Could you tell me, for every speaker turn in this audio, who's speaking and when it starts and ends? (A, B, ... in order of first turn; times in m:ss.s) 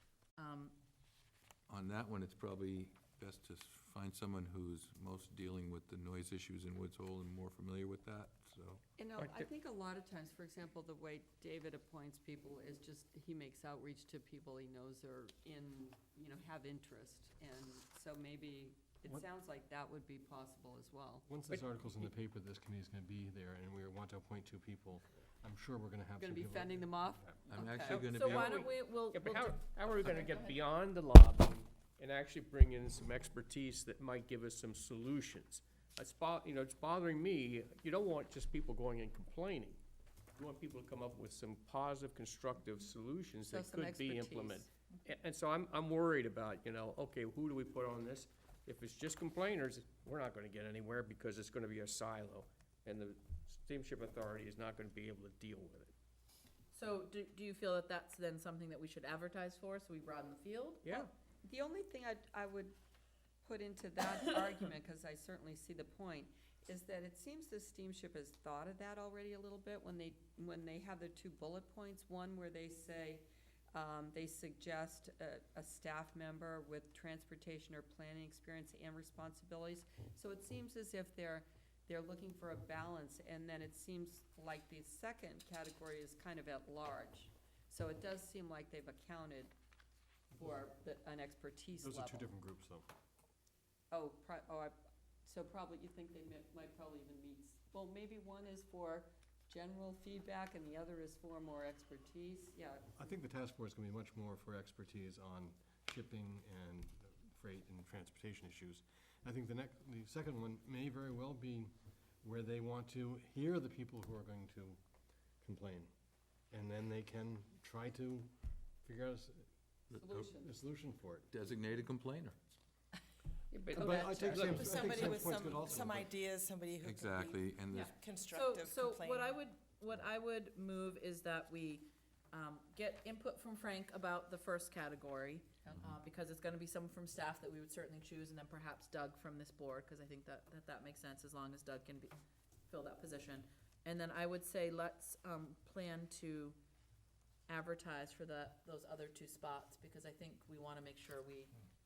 0:00.4-0:00.8 A
0:01.7-0:08.8 B
0:09.0-0:21.3 C
0:09.2-0:09.5 D
0:21.2-0:27.4 E
0:26.2-0:28.0 C
0:27.5-0:28.6 B
0:27.9-0:30.6 A
0:28.3-0:39.8 D
0:40.4-0:55.9 D
0:43.4-0:44.7 C
0:56.7-1:01.0 A
1:00.8-1:01.1 D
1:01.0-1:02.7 C
1:03.4-1:29.5 C
1:30.3-1:32.3 C
1:31.8-1:32.9 E
1:33.9-1:43.1 C
1:43.0-1:54.8 E
1:55.4-1:55.9 E
1:56.5-2:01.3 E
2:00.0-2:00.3 B
2:00.0-2:00.5 C
2:01.3-2:02.4 B
2:03.5-2:04.3 C
2:03.7-2:06.2 E
2:04.2-2:09.3 F
2:04.5-2:05.1 D
2:06.8-2:07.9 B
2:07.7-2:22.1 A
2:15.7-2:16.0 B
2:22.7-2:26.6 A
2:27.5-2:31.5 A